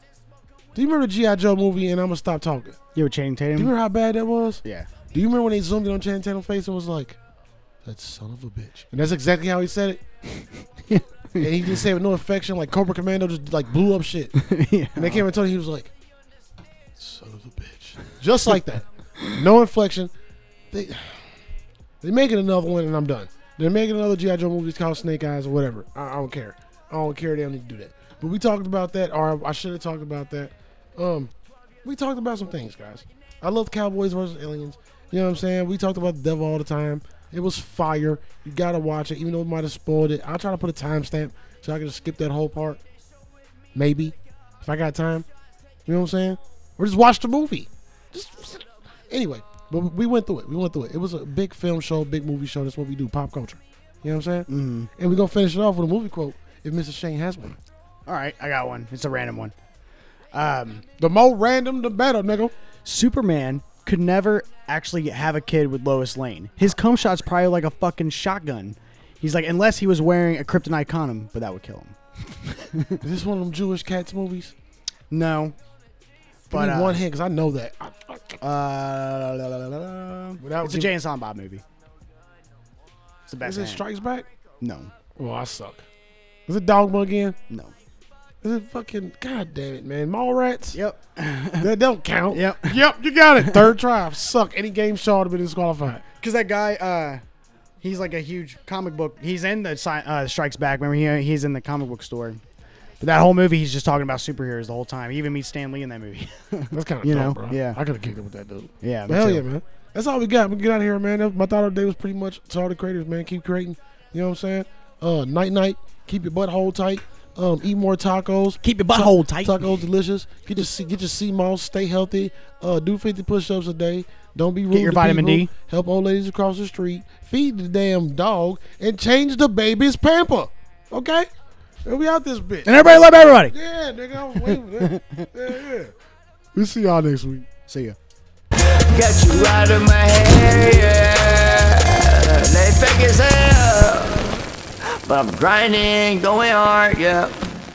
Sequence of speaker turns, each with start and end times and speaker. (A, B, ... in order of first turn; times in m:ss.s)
0:00.8-0:02.8 A
0:03.0-0:03.7 B
0:03.6-0:07.2 A
0:04.6-0:04.9 B
0:07.8-0:10.0 A
0:10.9-0:11.7 B
0:11.4-0:14.4 A
0:14.4-0:15.2 B
0:15.0-0:15.9 A
0:17.0-0:20.1 A
0:20.7-0:21.3 A
0:22.0-0:42.8 A
0:43.8-0:45.3 A
0:45.9-0:57.6 A
0:54.5-0:54.9 B
0:58.1-0:59.5 B
1:00.3-1:00.8 B
1:01.0-1:02.5 A
1:02.8-1:13.0 B
1:13.0-1:14.5 A
1:15.1-1:15.6 B
1:16.5-1:17.0 B
1:16.5-1:18.4 A
1:18.4-1:21.6 B
1:20.4-1:20.9 A
1:23.3-1:23.8 B
1:23.4-1:24.3 A
1:24.6-1:24.9 B
1:25.2-1:25.9 A
1:26.5-1:27.4 A
1:27.5-1:27.7 B
1:28.4-1:30.8 A
1:30.7-1:31.7 B
1:31.6-1:36.0 A
1:32.3-1:32.8 B
1:33.4-1:33.7 B
1:36.2-1:37.2 B
1:37.8-1:42.4 B
1:43.0-1:47.8 B
1:46.7-2:11.3 A
1:48.8-1:49.4 B
1:58.6-1:59.8 B
2:04.7-2:05.5 B
2:11.8-2:15.9 A
2:12.7-2:13.5 B
2:14.4-2:15.3 B
2:16.6-2:17.5 A
2:17.7-2:18.0 B
2:18.7-2:24.4 C
2:24.9-2:27.4 C